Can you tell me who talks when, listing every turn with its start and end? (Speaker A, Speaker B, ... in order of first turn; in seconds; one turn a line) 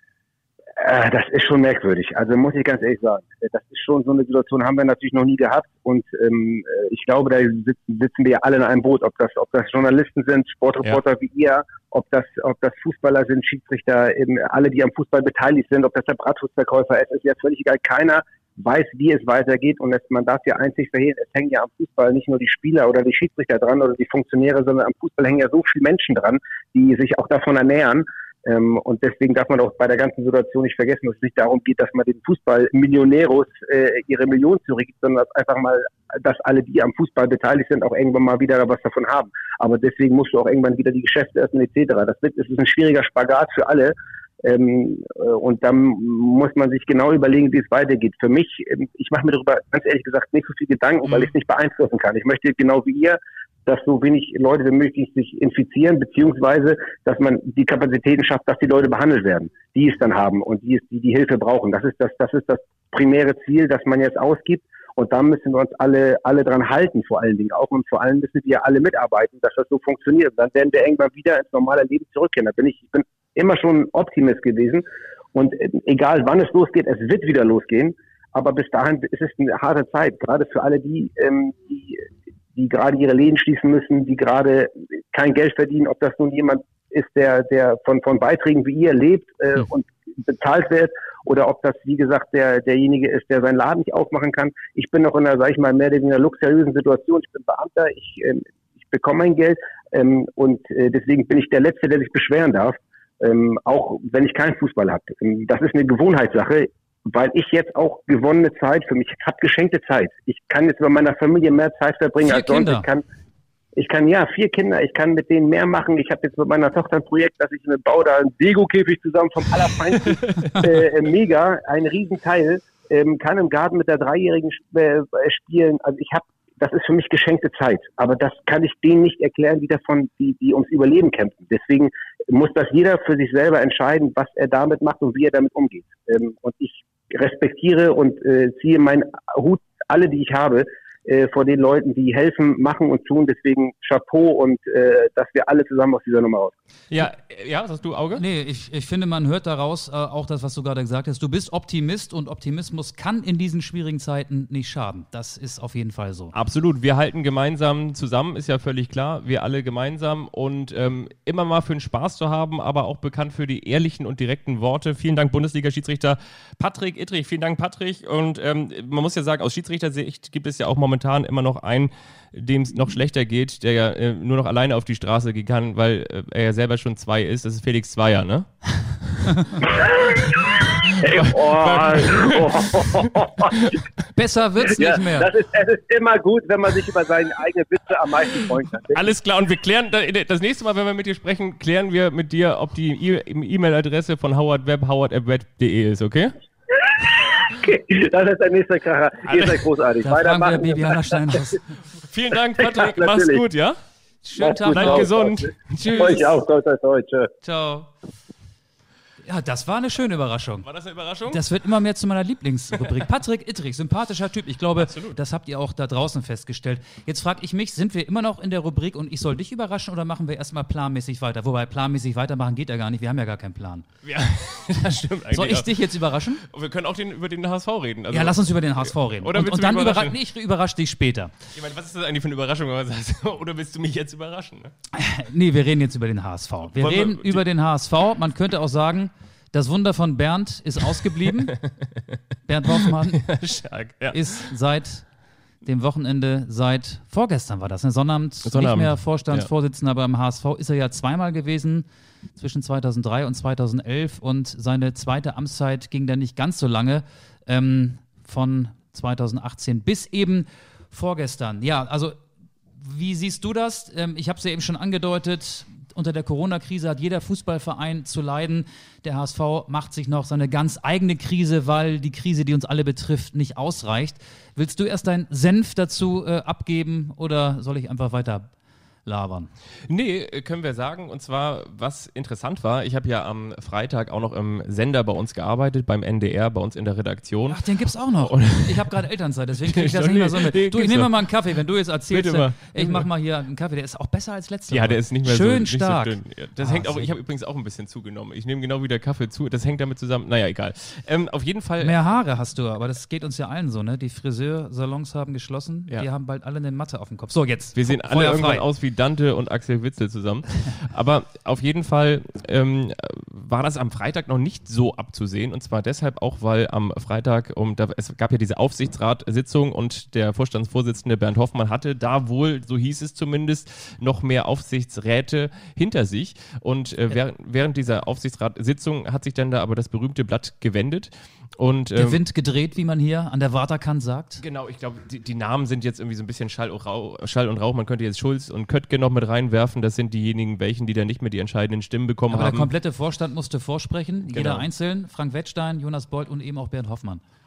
Speaker A: 0.8-113.0
Speaker B: 112.2-112.9
Speaker A: 113.8-146.6
Speaker C: 146.9-148.2
Speaker B: 148.2-156.3
Speaker C: 156.3-183.8
Speaker A: 179.7-183.7
Speaker B: 184.1-185.3
Speaker A: 184.6-189.0
Speaker C: 188.9-196.3
Speaker A: 196.7-201.4
Speaker C: 199.2-199.6
Speaker B: 200.0-201.6
Speaker C: 201.9-203.8
Speaker A: 202.6-203.4
Speaker B: 204.2-205.1
Speaker A: 204.4-207.3
Speaker C: 204.7-206.3
Speaker B: 207.4-207.9
Speaker B: 209.2-210.7
Speaker C: 210.6-211.4
Speaker B: 211.3-223.9
Speaker C: 214.8-215.2
Speaker C: 224.0-225.9
Speaker B: 225.3-226.4
Speaker C: 226.4-230.2
Speaker B: 228.1-231.3
Speaker C: 231.5-234.7
Speaker B: 234.9-241.6
Speaker C: 236.7-237.4
Speaker B: 242.5-243.3
Speaker C: 242.8-244.2
Speaker B: 244.1-245.1
Speaker B: 245.6-262.1
Speaker C: 248.4-249.5
Speaker B: 262.8-278.5
Speaker B: 279.1-279.5
Speaker C: 279.9-287.6
Speaker B: 287.5-297.1
Speaker C: 288.2-288.9
Speaker C: 289.7-291.1
Speaker C: 292.1-293.1
Speaker C: 294.7-301.9
Speaker B: 301.8-308.6
Speaker C: 307.7-332.2
Speaker B: 331.9-334.4
Speaker C: 334.4-342.7
Speaker B: 342.3-347.2
Speaker C: 344.3-344.7